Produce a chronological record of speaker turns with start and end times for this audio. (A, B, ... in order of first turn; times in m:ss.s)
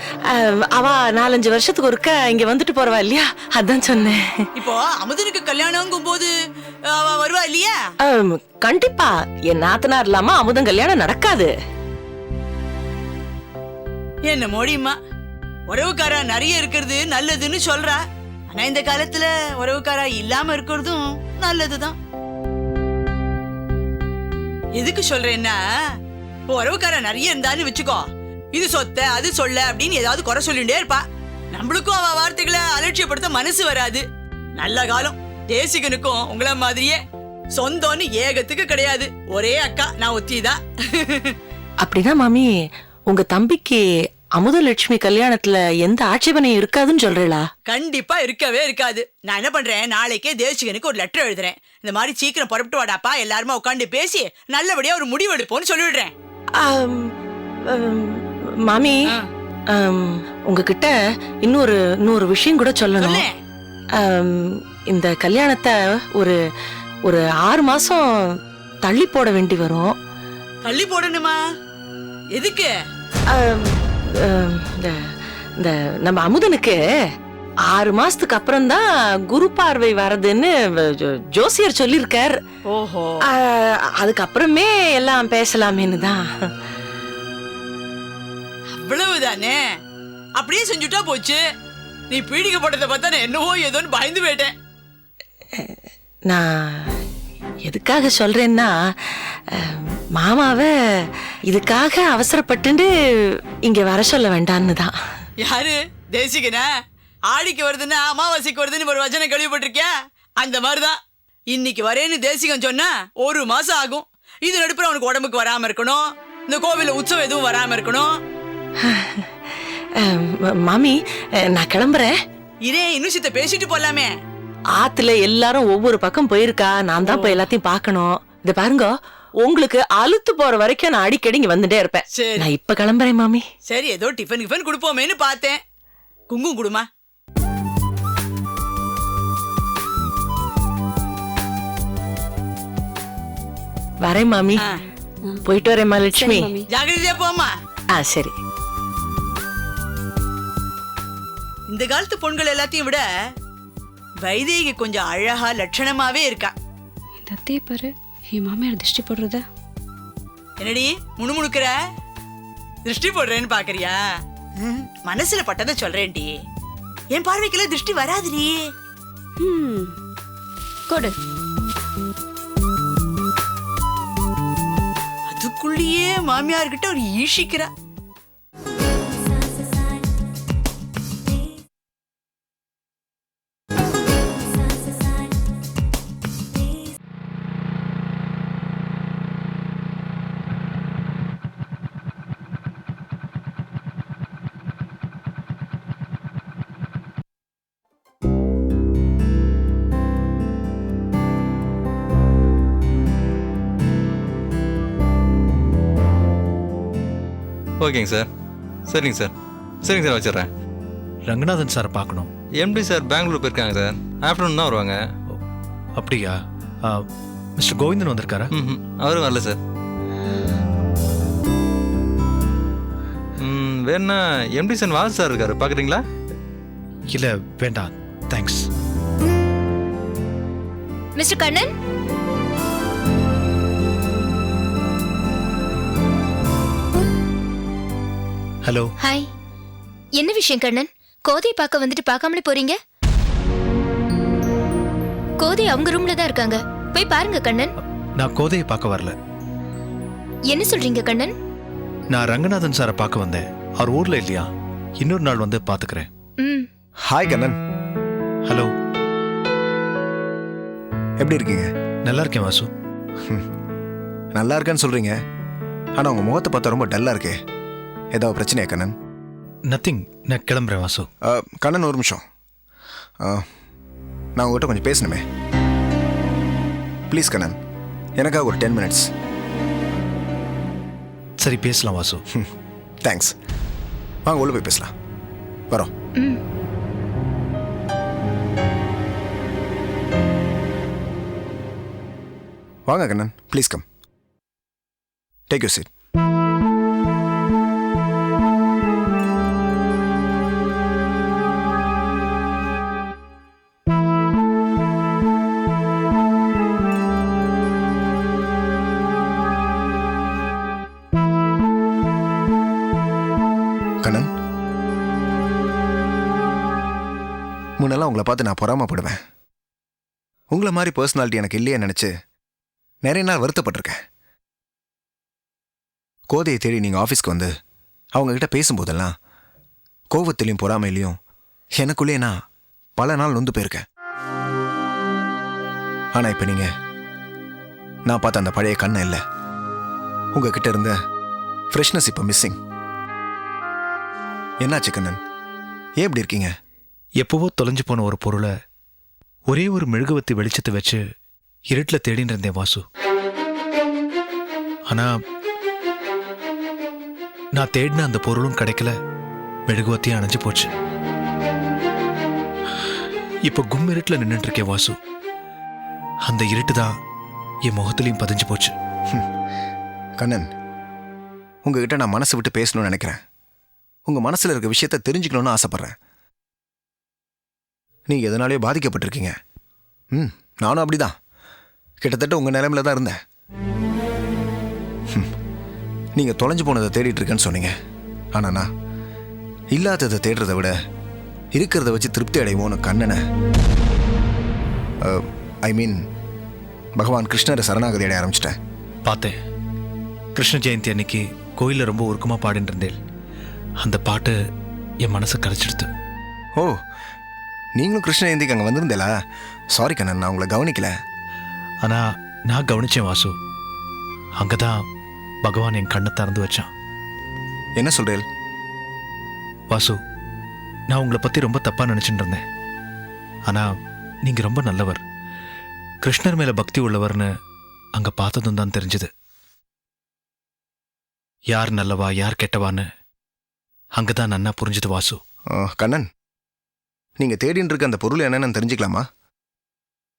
0:00.3-0:04.4 A
0:04.6-0:06.3 B
0:07.0-0:07.8 B
0:08.0-0:11.5 A
0:14.3-0:15.0 B
0:15.7-0:22.0 B
0:24.8-0:25.6 B
0:26.5-0:34.0 B
0:34.6-0:37.0 B
0:37.6-0:41.4 B
0:41.8-0:42.5 A
0:43.1-0:43.8 A
0:44.4-0:47.5 A
0:47.7-0:56.1 B
0:56.6-0:57.1 A
0:57.7-0:59.0 A
0:59.7-1:03.3 A
1:03.0-1:03.3 B
1:04.0-1:06.4 A
1:07.0-1:10.0 A
1:10.6-1:11.4 B
1:12.3-1:12.7 B
1:13.3-1:16.8 A
1:17.7-1:22.4 A
1:22.7-1:23.3 B
1:23.2-1:26.5 A
1:28.8-1:29.6 B
1:30.4-1:31.4 B
1:32.1-1:34.6 B
1:36.3-1:36.9 A
1:37.7-1:45.0 A
1:45.4-1:46.7 B
1:47.3-1:51.0 B
1:51.5-1:58.1 B
1:58.9-1:59.3 A
2:00.0-2:02.1 A
2:02.6-2:04.1 B
2:04.8-2:08.9 A
2:07.0-2:07.5 B
2:09.4-2:13.4 A
2:12.2-2:12.5 B
2:13.7-2:15.6 B
2:16.3-2:16.8 B
2:24.0-2:24.6 A
2:25.5-2:26.6 A
2:26.1-2:26.7 C
2:26.7-2:27.5 B
2:28.0-2:28.4 A
2:31.7-2:33.0 B
2:34.2-2:36.6 B
2:37.3-2:39.4 C
2:40.6-2:41.7 B
2:42.9-2:44.0 B
2:44.6-2:46.3 B
2:47.1-2:48.6 B
2:49.4-2:49.9 C
2:50.9-2:51.2 C
2:55.3-2:57.7 B
3:27.8-3:28.3 D
3:28.9-3:29.3 D
3:29.8-3:30.5 D
3:31.3-3:32.3 E
3:32.6-3:35.0 D
3:36.0-3:37.0 E
3:37.6-3:38.5 E
3:38.6-3:39.6 D
3:43.4-3:46.0 D
3:47.1-3:48.7 E
3:51.2-3:51.8 F
3:58.6-3:58.9 E
3:59.0-3:59.3 F
4:00.1-4:02.8 F
4:05.4-4:07.7 F
4:08.2-4:09.1 E
4:10.5-4:11.4 F
4:12.1-4:16.1 E
4:16.4-4:16.7 F
4:17.1-4:17.6 G
4:21.2-4:21.7 G
4:22.0-4:22.7 E
4:24.4-4:25.2 G
4:26.0-4:27.4 G
4:28.1-4:28.9 G
4:29.7-4:31.1 E
4:31.2-4:32.2 G
4:33.2-4:33.5 G
4:34.4-4:35.2 G
4:37.1-4:37.6 G
4:38.2-4:39.1 G
4:41.4-4:42.2 E
4:43.0-4:43.3 G
4:44.3-4:44.9 G
4:52.9-4:53.8 G
4:55.5-4:55.9 G
5:14.0-5:14.3 G
5:17.8-5:19.2 G
5:20.5-5:22.1 G
5:23.0-5:24.0 G
5:26.3-5:27.5 G
5:28.2-5:29.2 G
5:30.1-5:31.2 G
5:31.8-5:32.4 G
5:33.0-5:33.8 G
5:36.1-5:36.7 G
5:38.1-5:39.2 G
5:40.4-5:41.0 G
5:41.7-5:42.6 G
5:44.6-5:45.2 G
5:46.0-5:46.5 G
5:47.2-5:48.5 E
5:49.5-5:51.0 E
5:51.7-5:52.8 E
5:57.5-5:59.0 E
5:59.7-6:00.7 E
6:03.5-6:05.0 E
6:06.3-6:06.9 E
6:07.7-6:08.7 E
6:10.2-6:10.5 G
6:11.6-6:13.2 G
6:14.1-6:16.0 G
6:18.1-6:19.4 G
6:20.1-6:21.2 G
6:22.0-6:23.2 G
6:26.2-6:27.7 G
6:28.4-6:28.7 G
6:29.7-6:30.7 G
6:31.5-6:33.2 G
6:35.0-6:36.0 G
6:37.0-6:38.6 G
6:39.0-6:39.4 E
6:40.4-6:43.0 E
6:43.8-6:44.4 E
6:45.0-6:45.9 E
6:47.8-6:49.1 G
6:49.7-6:50.9 G
6:51.8-6:53.4 E
6:54.4-6:54.8 E
6:55.4-6:56.7 E
6:57.8-6:58.2 G
6:59.7-7:00.0 E
7:00.9-7:02.4 E
7:04.2-7:05.0 E
7:06.0-7:07.3 E
7:08.0-7:09.1 E
7:11.5-7:12.9 E
7:14.0-7:15.2 E
7:15.5-7:16.1 G
7:17.2-7:19.0 G